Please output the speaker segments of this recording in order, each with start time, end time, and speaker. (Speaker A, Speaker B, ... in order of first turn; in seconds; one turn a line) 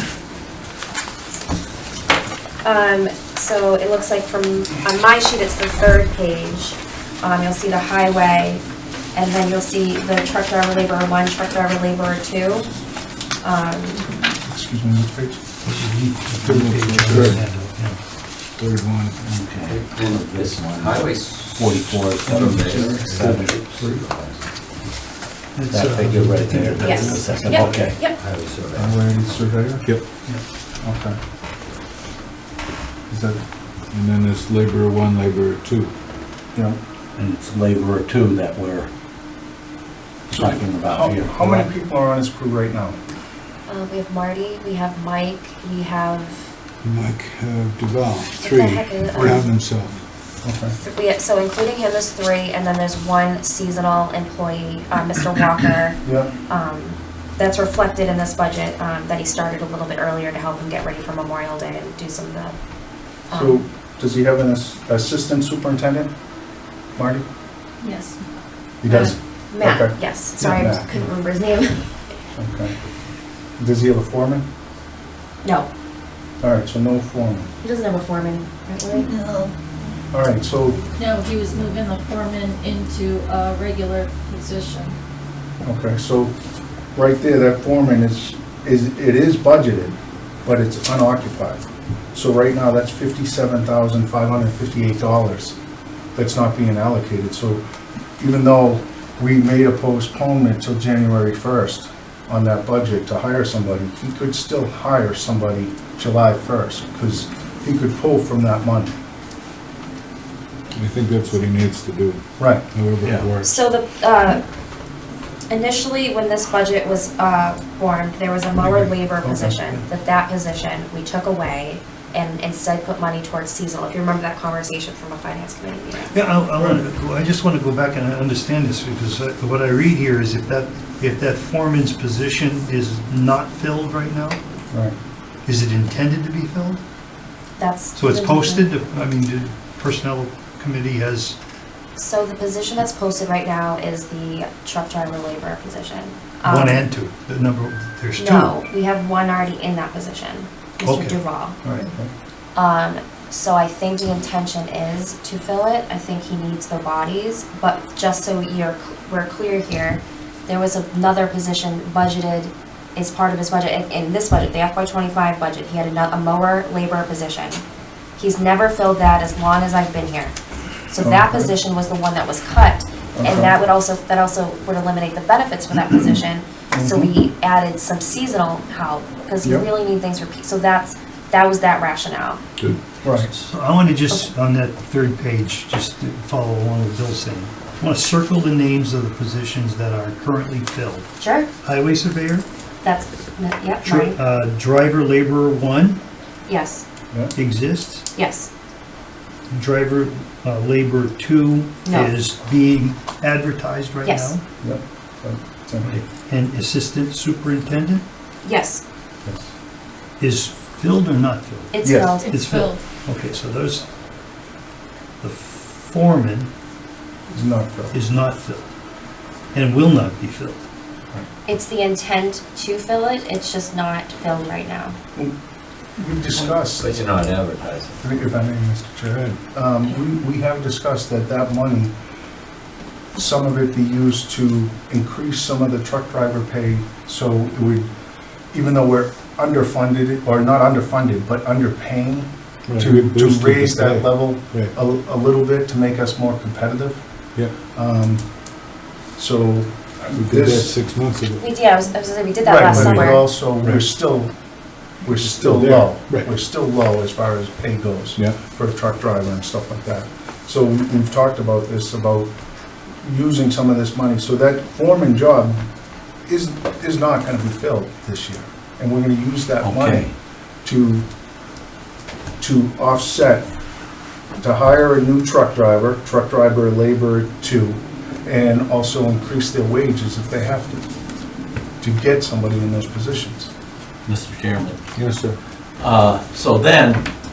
Speaker A: 2.6-8.6
Speaker A: 9.1-12.7
Speaker A: 13.4-14.0
Speaker B: 14.4-15.4
Speaker C: 15.6-18.0
Speaker D: 16.4-17.4
Speaker D: 18.6-19.2
Speaker E: 19.2-23.6
Speaker F: 19.7-24.4
Speaker B: 22.7-23.1
Speaker C: 25.6-27.9
Speaker E: 25.7-28.1
Speaker A: 26.8-28.2
Speaker F: 28.2-29.1
Speaker B: 28.7-29.9
Speaker B: 30.8-31.2
Speaker B: 33.1-33.4
Speaker D: 33.9-35.9
Speaker B: 36.5-36.8
Speaker E: 37.2-38.9
Speaker E: 40.3-41.7
Speaker B: 40.3-43.0
Speaker A: 43.7-46.5
Speaker D: 46.8-50.0
Speaker A: 48.4-49.5
Speaker B: 50.4-50.8
Speaker A: 50.8-62.6
Speaker B: 56.0-56.3
Speaker A: 63.3-63.6
Speaker B: 63.3-66.1
Speaker B: 67.0-67.3
Speaker G: 67.8-68.2
Speaker B: 68.8-70.9
Speaker G: 68.9-69.1
Speaker A: 69.1-71.9
Speaker B: 72.4-72.8
Speaker B: 73.6-74.5
Speaker A: 75.4-75.7
Speaker B: 76.4-77.5
Speaker A: 77.6-79.1
Speaker G: 78.9-80.0
Speaker B: 80.1-80.8
Speaker G: 81.0-85.0
Speaker B: 85.6-86.3
Speaker B: 87.0-91.6
Speaker B: 92.1-95.6
Speaker B: 96.2-97.6
Speaker B: 98.2-108.9
Speaker D: 110.8-113.6
Speaker B: 112.4-112.6
Speaker E: 113.0-113.3
Speaker A: 113.4-114.4
Speaker A: 115.5-126.2
Speaker B: 118.6-119.6
Speaker C: 126.1-134.4
Speaker C: 135.5-136.8
Speaker A: 137.6-138.7
Speaker C: 137.9-141.4
Speaker A: 142.0-146.9
Speaker C: 146.4-148.6
Speaker A: 148.2-151.7
Speaker C: 150.8-151.2
Speaker B: 151.6-152.1
Speaker A: 152.6-167.6
Speaker A: 168.2-170.4
Speaker A: 170.9-182.4
Speaker B: 171.0-171.5
Speaker B: 173.2-173.5
Speaker B: 176.7-177.1
Speaker B: 179.4-179.7
Speaker B: 183.0-183.3
Speaker C: 183.1-191.1
Speaker A: 191.2-191.5
Speaker C: 191.6-192.5
Speaker A: 192.8-194.2
Speaker C: 193.8-196.0
Speaker A: 196.5-196.8
Speaker C: 197.3-198.1
Speaker A: 198.1-198.5
Speaker C: 199.5-204.4
Speaker A: 201.8-202.1
Speaker A: 204.0-204.3
Speaker B: 204.6-205.9
Speaker C: 205.8-208.0
Speaker A: 208.4-208.8
Speaker C: 210.2-213.9
Speaker A: 211.7-212.3
Speaker B: 211.8-212.2
Speaker G: 212.1-212.9
Speaker C: 215.2-216.5
Speaker B: 217.3-217.9
Speaker C: 217.9-218.7
Speaker C: 219.5-220.6
Speaker A: 221.5-225.0
Speaker B: 226.0-227.2
Speaker F: 226.4-228.0
Speaker B: 228.0-231.9
Speaker B: 233.1-237.9
Speaker B: 238.5-247.0
Speaker D: 242.7-244.7
Speaker B: 247.7-248.3
Speaker B: 249.2-250.8
Speaker D: 250.1-251.4
Speaker A: 251.4-253.2
Speaker B: 252.4-254.3
Speaker D: 252.7-253.8
Speaker B: 255.0-262.3
Speaker D: 255.2-256.3
Speaker B: 263.0-265.6
Speaker B: 266.3-270.1
Speaker E: 269.6-270.1
Speaker B: 270.6-271.1
Speaker B: 272.4-273.4
Speaker B: 274.4-280.8
Speaker B: 281.8-283.5
Speaker E: 284.1-284.9
Speaker D: 285.0-285.4
Speaker E: 285.8-287.0